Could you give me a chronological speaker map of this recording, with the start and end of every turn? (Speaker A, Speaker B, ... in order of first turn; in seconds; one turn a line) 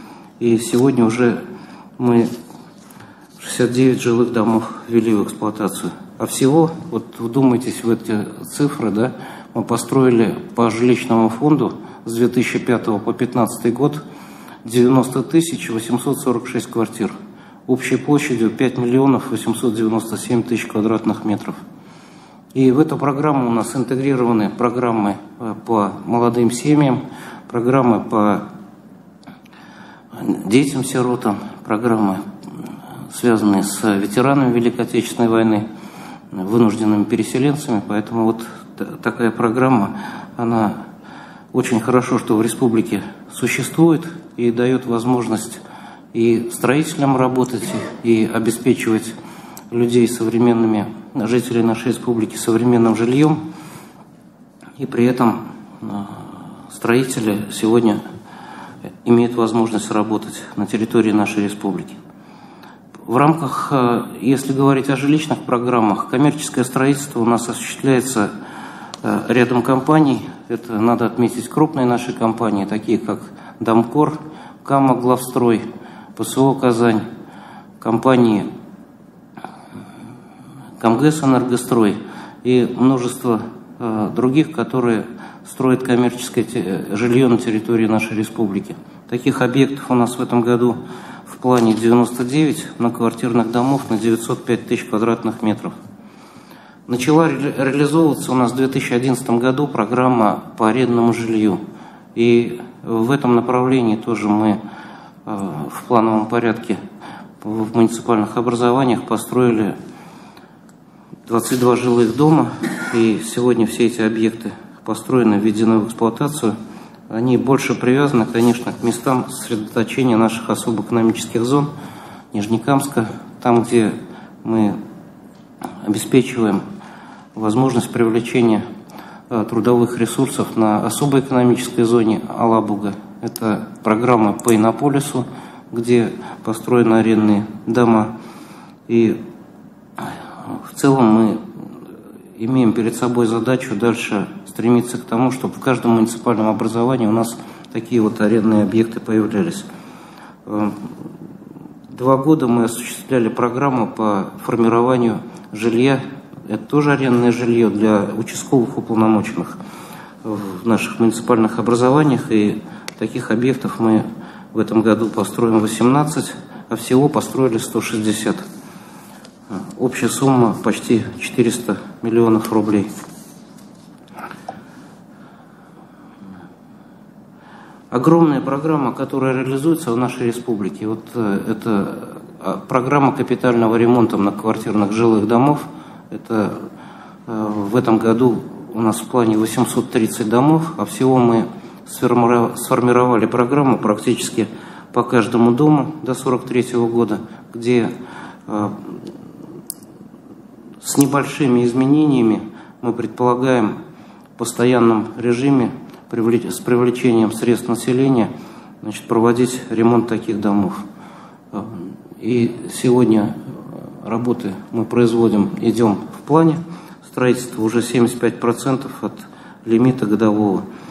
Speaker A: 0.4-1.4
Speaker A: 2.0-2.3
Speaker A: 3.4-14.0
Speaker A: 14.6-17.1
Speaker A: 17.7-21.6
Speaker A: 22.5-28.5
Speaker A: 30.1-32.2
Speaker A: 33.1-35.7
Speaker A: 36.3-40.9
Speaker A: 41.5-45.6
Speaker A: 46.1-49.1
Speaker A: 49.7-53.4
Speaker A: 54.8-58.0
Speaker A: 59.0-62.0
Speaker A: 63.1-68.3
Speaker A: 69.0-77.0
Speaker A: 77.8-78.5
Speaker A: 80.8-95.7
Speaker A: 96.9-101.6
Speaker A: 102.2-104.6
Speaker A: 105.3-106.8
Speaker A: 107.4-109.8
Speaker A: 111.3-116.5
Speaker A: 117.1-121.7
Speaker A: 122.3-124.8
Speaker A: 125.8-126.6
Speaker A: 127.3-128.6
Speaker A: 129.3-138.1
Speaker A: 138.9-139.2
Speaker A: 140.0-141.5
Speaker A: 142.4-149.7
Speaker A: 150.5-150.9
Speaker A: 151.9-159.6
Speaker A: 160.2-168.4
Speaker A: 169.5-172.9
Speaker A: 177.9-186.7
Speaker A: 187.3-197.9
Speaker A: 198.5-199.1
Speaker A: 200.8-203.8
Speaker A: 204.4-208.3
Speaker A: 208.8-210.8
Speaker A: 211.5-220.7